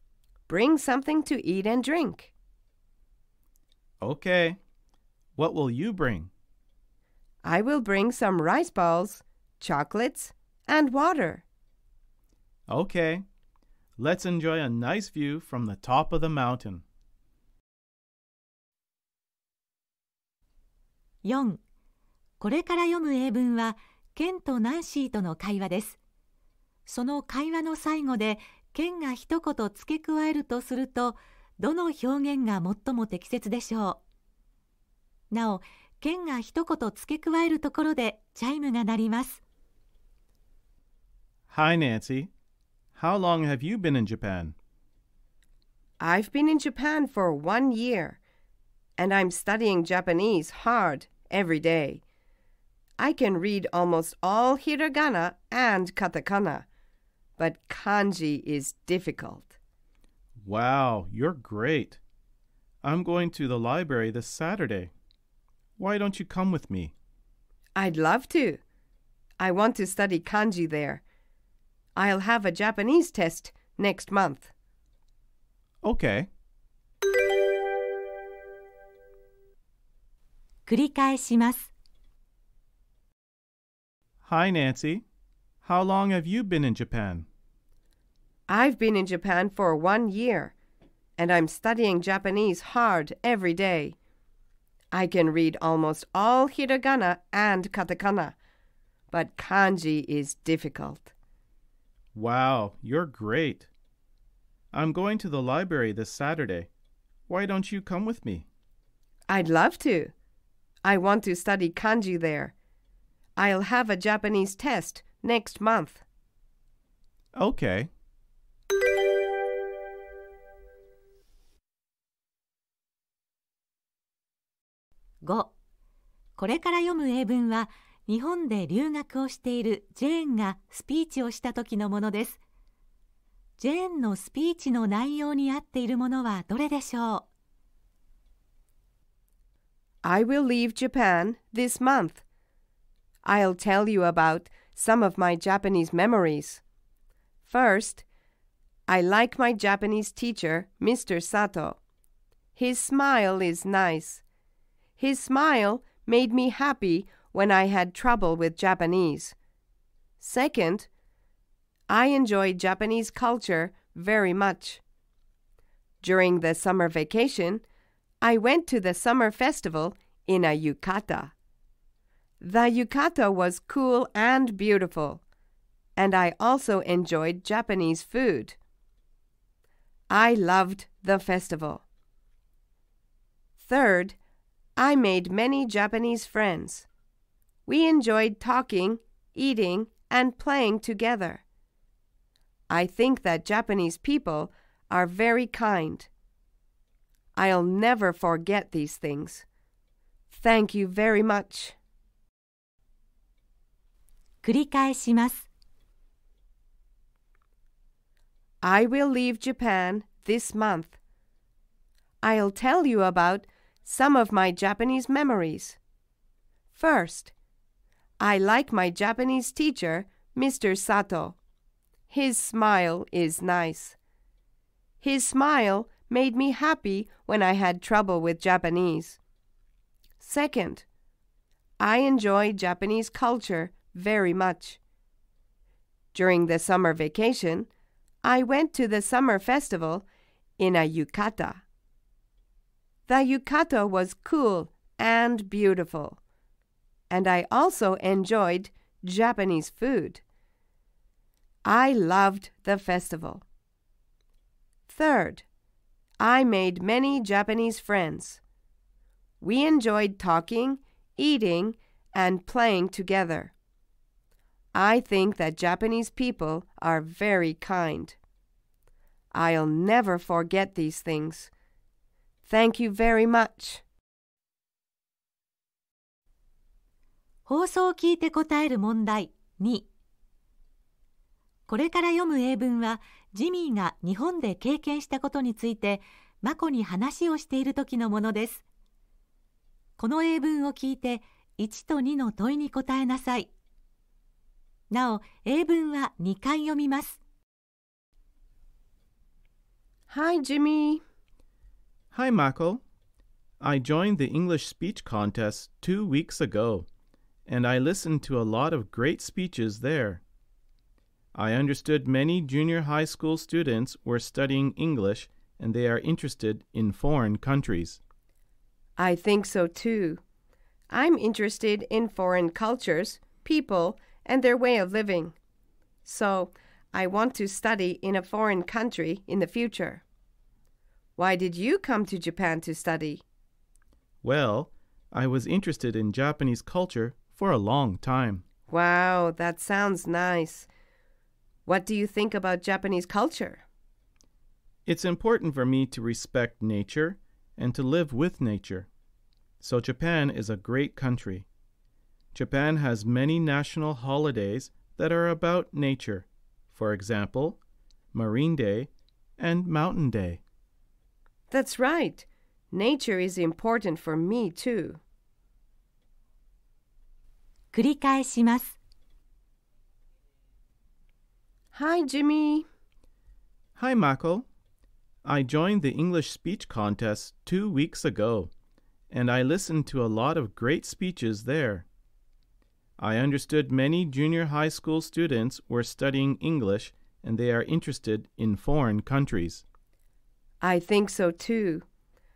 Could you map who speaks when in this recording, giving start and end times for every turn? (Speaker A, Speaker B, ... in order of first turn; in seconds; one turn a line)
Speaker A: 0.5-2.3
Speaker B: 4.0-4.6
Speaker B: 5.3-6.3
Speaker A: 7.4-11.4
Speaker B: 12.7-13.2
Speaker B: 14.0-16.8
Speaker C: 21.2-21.6
Speaker C: 22.4-26.0
Speaker C: 26.9-34.0
Speaker C: 35.3-39.4
Speaker B: 41.5-42.3
Speaker B: 42.9-44.5
Speaker A: 46.0-48.2
Speaker A: 49.0-52.0
Speaker A: 53.0-56.6
Speaker A: 57.4-59.5
Speaker B: 60.4-62.0
Speaker B: 62.8-64.9
Speaker B: 65.8-66.9
Speaker A: 67.8-68.6
Speaker A: 69.4-71.0
Speaker A: 72.0-74.5
Speaker B: 75.8-76.3
Speaker C: 80.7-81.7
Speaker B: 84.2-85.0
Speaker B: 85.6-87.3
Speaker A: 88.5-90.5
Speaker A: 91.2-94.0
Speaker A: 94.9-98.3
Speaker A: 99.1-101.1
Speaker B: 102.1-103.7
Speaker B: 104.7-106.7
Speaker B: 107.3-108.5
Speaker A: 109.3-110.1
Speaker A: 110.8-112.5
Speaker A: 113.4-116.0
Speaker B: 117.3-117.9
Speaker C: 125.2-125.5
Speaker C: 126.4-132.4
Speaker C: 133.6-137.3
Speaker A: 140.0-142.2
Speaker A: 143.2-146.6
Speaker A: 147.4-148.0
Speaker A: 148.9-151.8
Speaker A: 152.5-154.2
Speaker A: 155.0-159.3
Speaker A: 160.2-160.9
Speaker A: 161.9-164.8
Speaker A: 166.0-167.6
Speaker A: 168.2-171.3
Speaker A: 172.4-175.2
Speaker A: 175.9-178.6
Speaker A: 180.1-181.8
Speaker A: 183.6-184.2
Speaker A: 184.8-186.9
Speaker A: 187.7-191.4
Speaker A: 192.7-196.1
Speaker A: 197.3-199.4
Speaker A: 200.3-201.8
Speaker C: 204.4-205.5
Speaker A: 208.6-211.0
Speaker A: 212.2-215.8
Speaker A: 216.7-217.3
Speaker A: 218.2-221.4
Speaker A: 222.1-224.0
Speaker A: 225.0-229.2
Speaker A: 230.2-230.8
Speaker A: 231.8-234.8
Speaker A: 236.1-237.7
Speaker A: 238.2-240.1
Speaker A: 240.6-241.6
Speaker A: 243.1-246.2
Speaker A: 247.1-250.2
Speaker A: 251.6-253.4
Speaker A: 254.9-255.4
Speaker A: 256.2-258.4
Speaker A: 259.4-263.5
Speaker A: 264.7-268.2
Speaker A: 269.3-271.5
Speaker A: 272.4-273.8
Speaker C: 277.4-279.9
Speaker C: 281.7-288.6
Speaker C: 290.0-293.5
Speaker C: 294.9-297.2
Speaker A: 300.1-301.0
Speaker B: 302.1-302.8
Speaker B: 303.6-306.9
Speaker B: 307.5-310.2
Speaker B: 311.3-318.0
Speaker A: 319.0-320.2
Speaker A: 320.9-325.4
Speaker A: 326.0-330.0
Speaker A: 331.2-333.2
Speaker B: 334.2-338.4
Speaker A: 338.7-340.7
Speaker A: 341.6-343.6
Speaker B: 344.9-348.9
Speaker B: 349.6-351.5
Speaker B: 352.3-357.6
Speaker B: 358.1-360.4
Speaker A: 361.5-365.0
Speaker C: 367.7-368.8
Speaker A: 371.7-372.6
Speaker B: 373.8-374.4
Speaker B: 375.2-378.5
Speaker B: 379.1-381.9
Speaker B: 383.0-389.6
Speaker A: 390.6-391.8